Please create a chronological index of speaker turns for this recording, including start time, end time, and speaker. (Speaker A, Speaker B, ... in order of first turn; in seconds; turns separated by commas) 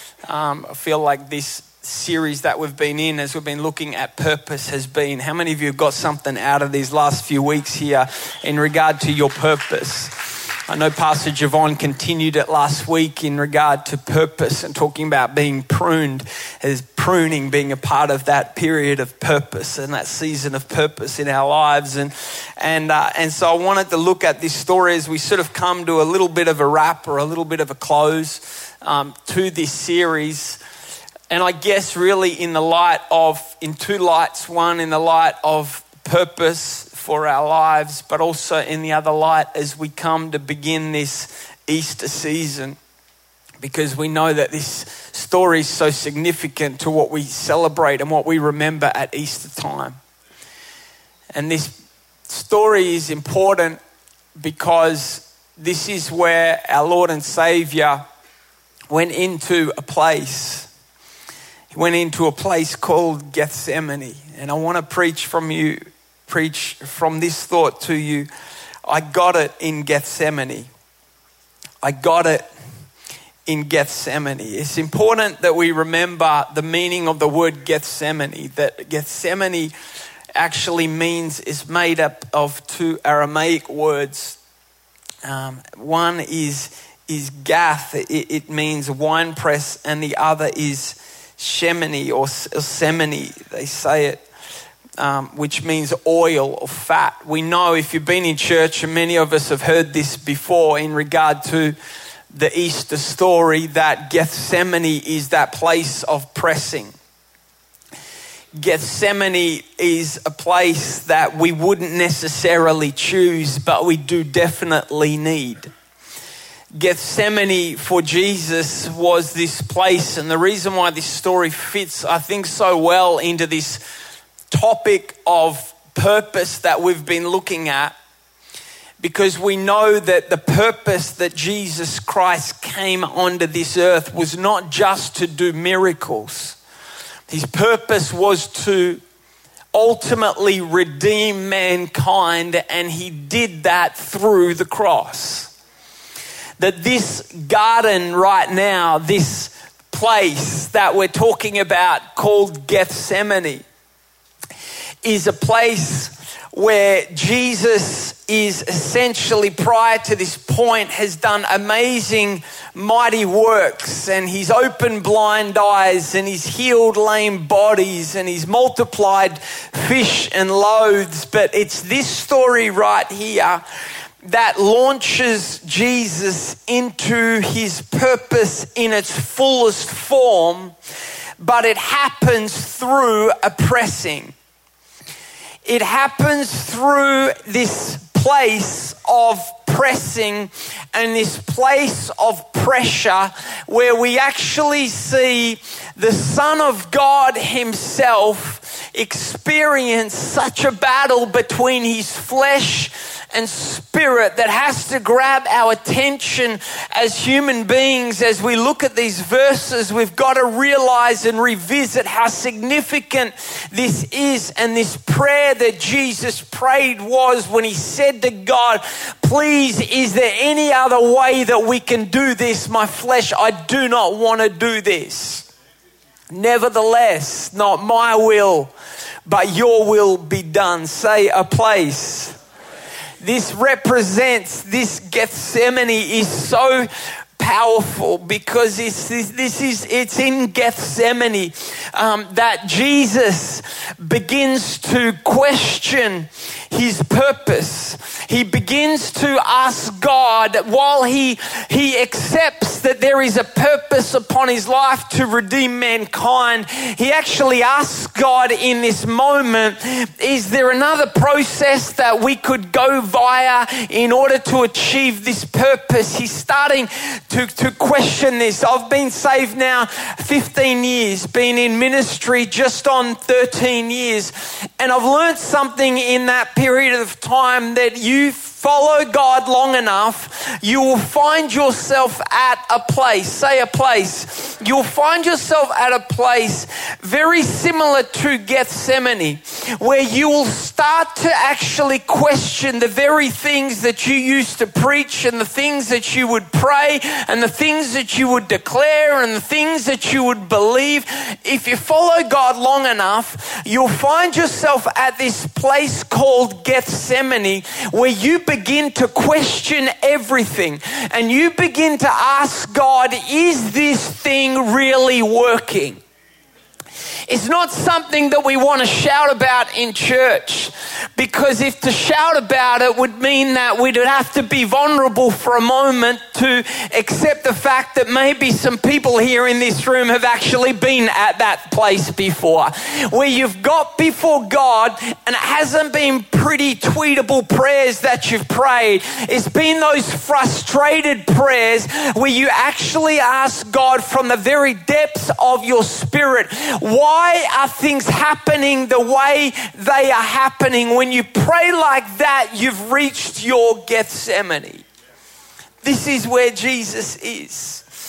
Speaker A: 0.3-30.6, Speaker A: 31.3-42.8, Speaker A: 43.6-50.0, Speaker A: 51.3-51.8, Speaker A: 52.3-53.8, Speaker A: 54.4-58.0, Speaker A: 58.9-60.7, Speaker A: 61.7-68.3, Speaker A: 68.8-70.7, Speaker A: 71.8-72.5, Speaker A: 73.5-79.7, Speaker A: 80.3-84.4, Speaker A: 85.2-94.2, Speaker A: 95.0-101.8, Speaker A: 102.3-106.9, Speaker A: 108.6-115.7, Speaker A: 116.8-123.8, Speaker A: 124.5-127.9, Speaker A: 129.0-136.6, Speaker A: 137.3-139.0, Speaker A: 139.7-145.5, Speaker A: 146.6-153.6, Speaker A: 155.0-173.6, Speaker A: 174.2-180.7, Speaker A: 181.4-184.3, Speaker A: 185.6-225.5, Speaker A: 226.3-228.7, Speaker A: 229.2-232.3, Speaker A: 233.2-316.0, Speaker A: 317.3-354.8, Speaker A: 355.8-357.9